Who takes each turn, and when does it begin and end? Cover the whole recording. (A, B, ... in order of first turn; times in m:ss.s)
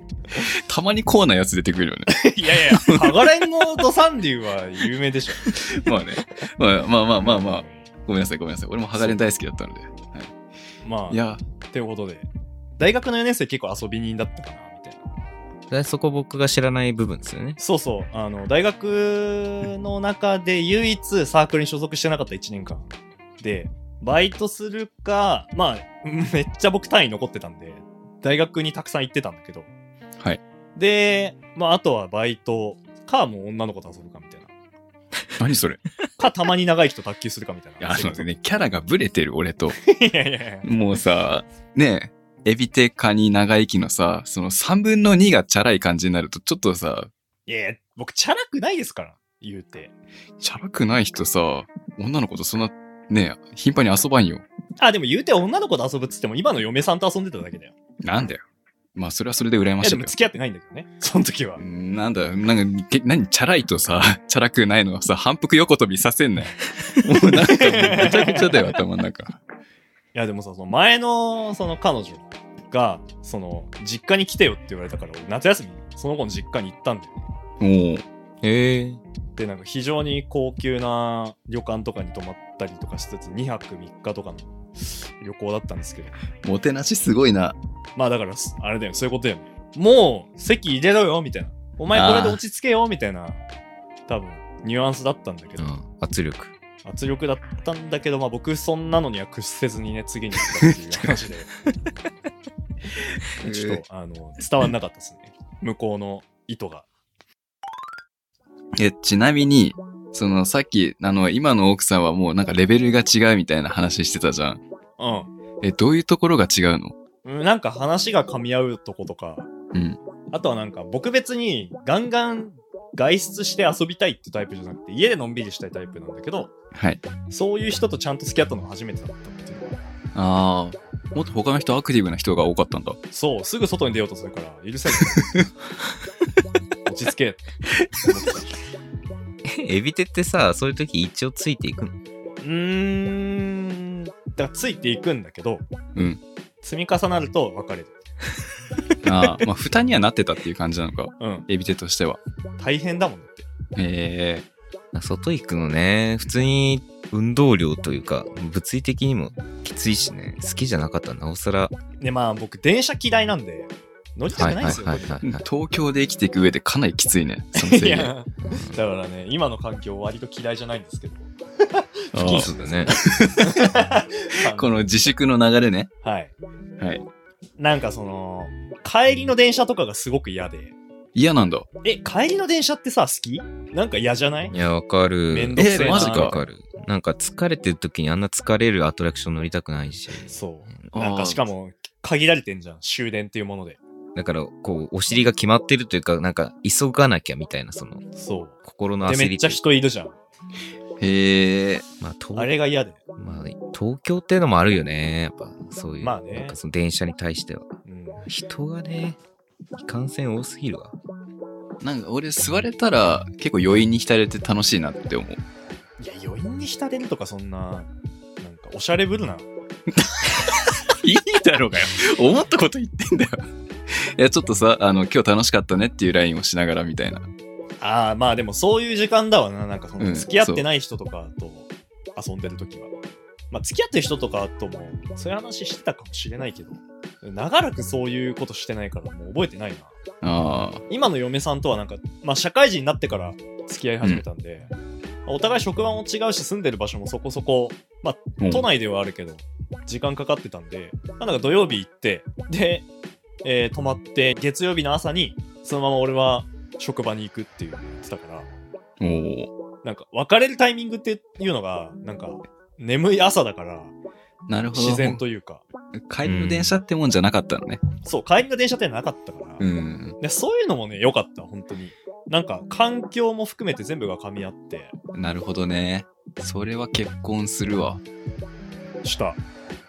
0:00.3-0:03.2 A
0:02.1-0:05.5 B
0:05.5-0:10.3 A
0:07.2-0:07.8 B
0:10.8-0:15.0 B
0:11.1-0:11.4 A
0:15.7-0:17.6 C
0:17.6-0:29.7 B
0:30.8-0:34.5 B
0:35.4-0:35.8 A
0:36.2-0:38.3 B
0:37.8-0:39.8 A
0:39.8-0:40.7 B
0:40.6-0:47.1 A
0:47.5-0:49.9 B
0:50.4-0:54.4 A
0:54.8-0:57.7 B
0:58.0-0:58.4 A
0:59.0-1:00.1 A
0:59.8-1:01.6 B
1:01.6-1:09.4 A
1:07.4-1:08.7 B
1:10.1-1:17.2 B
1:17.6-1:18.0 A
1:18.4-1:19.0 C
1:19.4-1:26.2 B
1:26.4-1:27.6 A
1:28.0-1:33.4 B
1:31.9-1:32.4 A
1:34.1-1:35.7 B
1:35.6-1:36.5 C
1:36.8-1:41.5 B
1:43.4-1:43.8 A
1:43.4-1:46.9 B
1:48.8-1:54.6 A
1:55.0-1:55.3 B
1:55.6-1:56.9 A
1:57.2-1:59.5 B
1:59.7-2:00.0 A
2:00.3-2:06.5 B
2:06.7-2:07.0 A
2:07.3-2:09.8 B
2:10.1-2:13.0 A
2:13.1-2:15.4 B
2:16.9-2:17.4 B
2:18.0-2:18.6 B
2:19.4-2:22.0 C
2:22.4-2:25.6 B
2:25.9-2:26.2 A
2:26.6-2:27.9 B
2:29.0-2:32.2 A
2:31.2-2:31.5 B
2:32.6-2:33.5 B
2:33.8-2:34.4 A
2:34.9-2:41.8 C
2:42.0-2:45.2 B
2:44.4-2:45.4 C
2:45.2-2:48.1 A
2:47.6-2:54.8 B
2:52.1-2:52.5 A
2:52.2-2:53.0 C
2:53.0-2:53.7 A
2:54.4-2:55.9 A
2:56.0-2:56.3 B
2:56.8-2:57.0 A
2:57.6-3:00.8 B
3:01.1-3:01.7 A
3:01.8-3:04.6 B
3:04.5-3:10.3 C
3:05.3-3:06.5 B
3:05.6-3:06.4 A
3:10.3-3:13.8 B
3:10.9-3:11.4 A
3:14.1-3:18.0 C
3:18.1-3:20.2 B
3:18.6-3:19.6 C
3:21.0-3:21.8 A
3:22.0-3:22.5 C
3:22.4-3:23.0 B
3:23.2-3:27.7 C
3:26.0-3:26.6 B
3:27.9-3:28.3 B
3:28.3-3:29.2 C
3:29.8-3:30.9 C
3:31.8-3:35.4 A
3:36.0-3:37.9 B
3:38.4-3:39.4 B
3:40.0-3:47.3 A
3:47.8-3:52.9 B
3:50.0-3:50.6 A
3:53.5-3:59.9 B
4:00.2-4:00.8 A
4:00.9-4:04.7 B
4:05.3-4:12.9 B
4:08.4-4:08.7 A
4:13.4-4:18.5 B
4:19.0-4:19.5 A
4:19.8-4:23.9 B
4:24.5-4:25.2 A
4:24.7-4:25.6 B
4:25.9-4:27.8 A
4:26.2-4:26.7 C
4:28.0-4:29.6 B
4:29.6-4:30.2 A
4:30.2-4:34.9 B
4:35.1-4:38.0 A
4:39.0-4:39.4 B